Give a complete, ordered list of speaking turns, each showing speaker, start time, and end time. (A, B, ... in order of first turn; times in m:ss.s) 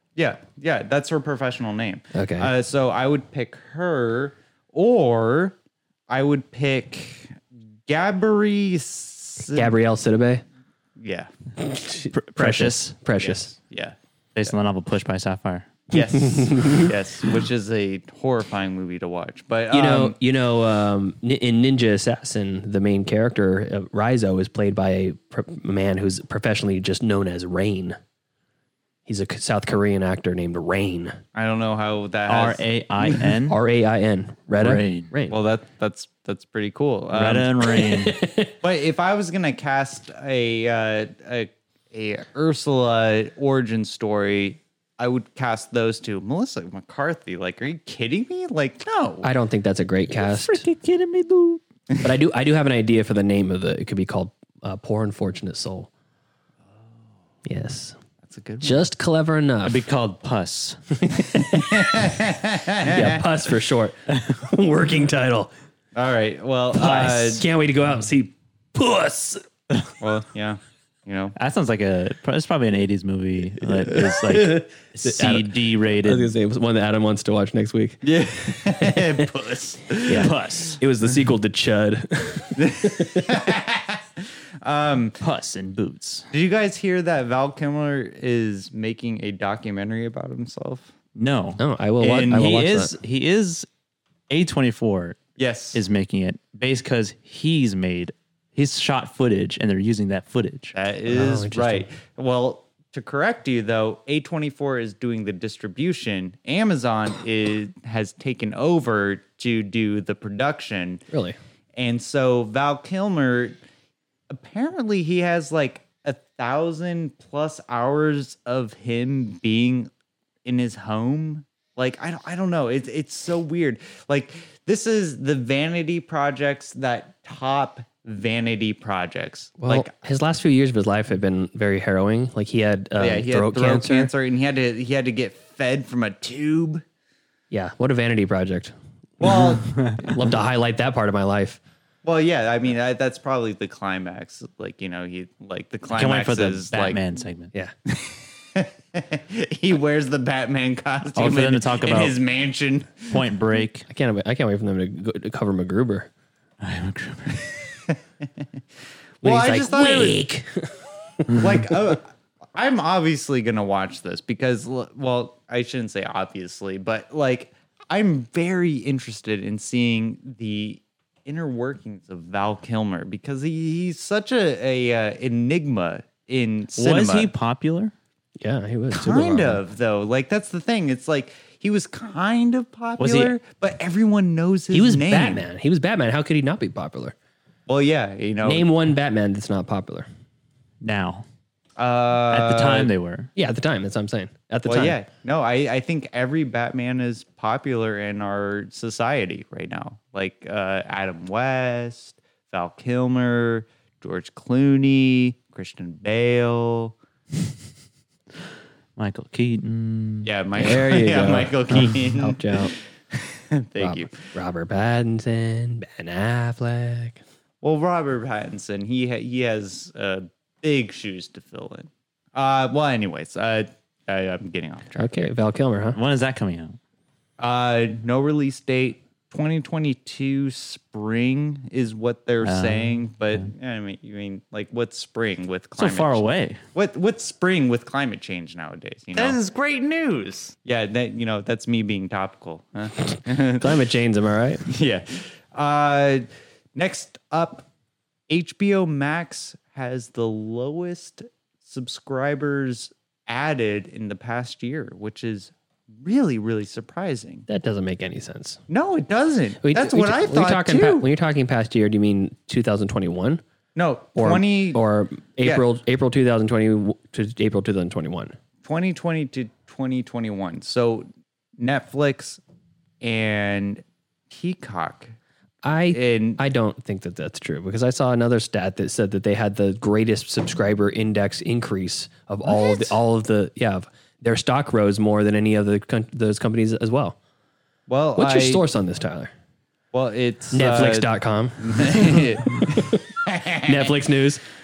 0:00.2-0:05.6 A
0:02.2-0:02.5 B
0:06.1-0:09.7 A
0:09.5-0:10.4 B
0:11.0-0:11.3 A
0:11.6-0:13.5 B
0:12.1-0:12.9 C
0:13.2-0:14.0 A
0:14.4-0:15.7 C
0:15.9-0:16.9 B
0:15.9-0:20.2 A
0:19.7-0:28.0 B
0:29.1-0:31.2 B
0:31.4-0:33.3 A
0:32.3-0:33.6 C
0:33.5-0:35.4 B
0:34.6-0:35.1 C
0:35.3-0:37.7 A
0:37.1-0:38.2 C
0:37.7-0:38.6 B
0:38.6-0:49.3 A
0:49.2-0:50.6 B
0:50.1-0:51.6 C
0:52.0-0:55.9 B
0:57.5-0:58.0 B
0:58.2-0:58.8 A
0:58.6-0:59.8 B
0:59.6-1:00.8 C
1:01.0-1:01.9 B
1:01.4-1:03.2 A
1:02.8-1:05.5 B
1:06.0-1:07.5 A
1:06.8-1:09.4 B
1:10.0-1:11.4 A
1:11.4-1:16.3 C
1:13.7-1:18.1 B
1:18.0-1:20.4 A
1:18.6-1:19.3 B
1:20.1-1:20.8 C
1:20.1-1:23.4 B
1:22.6-1:25.2 A
1:25.2-1:26.2 C
1:26.3-1:30.9 A
1:31.2-1:33.7 C
1:31.6-1:33.0 B
1:32.0-1:32.4 A
1:34.3-1:35.2 C
1:35.4-1:35.8 A
1:35.7-1:40.7 C
1:40.8-1:51.0 A
1:41.1-1:41.9 B
1:51.1-1:51.4 B
1:51.8-1:53.6 A
1:54.3-1:59.9 A
2:00.4-2:09.9 A
2:09.6-2:14.1 B
2:13.0-2:16.8 A
2:17.5-2:21.6 B
2:19.2-2:20.1 A
2:19.8-2:20.0 C
2:22.0-2:27.0 A
2:25.9-2:27.5 C
2:27.9-2:33.2 A
2:31.2-2:32.2 C
2:33.1-2:33.8 C
2:33.9-2:36.1 B
2:36.6-2:37.5 C
2:39.2-2:40.2 A
2:39.2-2:40.8 B
2:41.4-2:57.3 A
2:56.8-2:57.9 C
2:58.4-2:59.6 B
2:58.9-3:05.4 A
3:03.0-3:03.4 C
3:04.7-3:07.2 B
3:07.7-3:08.7 A
3:08.4-3:10.1 B
3:10.8-3:11.2 C
3:11.8-3:12.9 A
3:12.3-3:13.3 C
3:13.4-3:15.0 B
3:14.7-3:27.0 A
3:29.0-3:30.3 C
3:30.2-3:34.2 A
3:30.6-3:32.7 B
3:33.8-3:37.2 B
3:37.6-3:45.3 A
3:45.0-3:46.0 B
3:45.9-3:46.8 C
3:47.4-4:03.8 A
3:52.4-3:53.5 C
3:55.8-3:56.6 C
4:03.6-4:04.6 B
4:04.7-4:07.7 A
4:08.3-4:17.4 A
4:17.5-4:18.6 B
4:18.7-4:21.1 A
4:19.6-4:23.4 B
4:23.8-4:24.8 A
4:24.2-4:28.4 B
4:28.6-4:31.1 A
4:31.6-4:32.4 A
4:33.0-4:35.1 A
4:35.6-4:47.2 B
4:35.9-4:36.4 A
4:42.5-4:42.9 A
4:47.9-4:48.7 A
4:48.2-4:49.3 B
4:49.9-4:53.9 A
4:50.5-4:53.0 B
4:53.6-4:54.4 B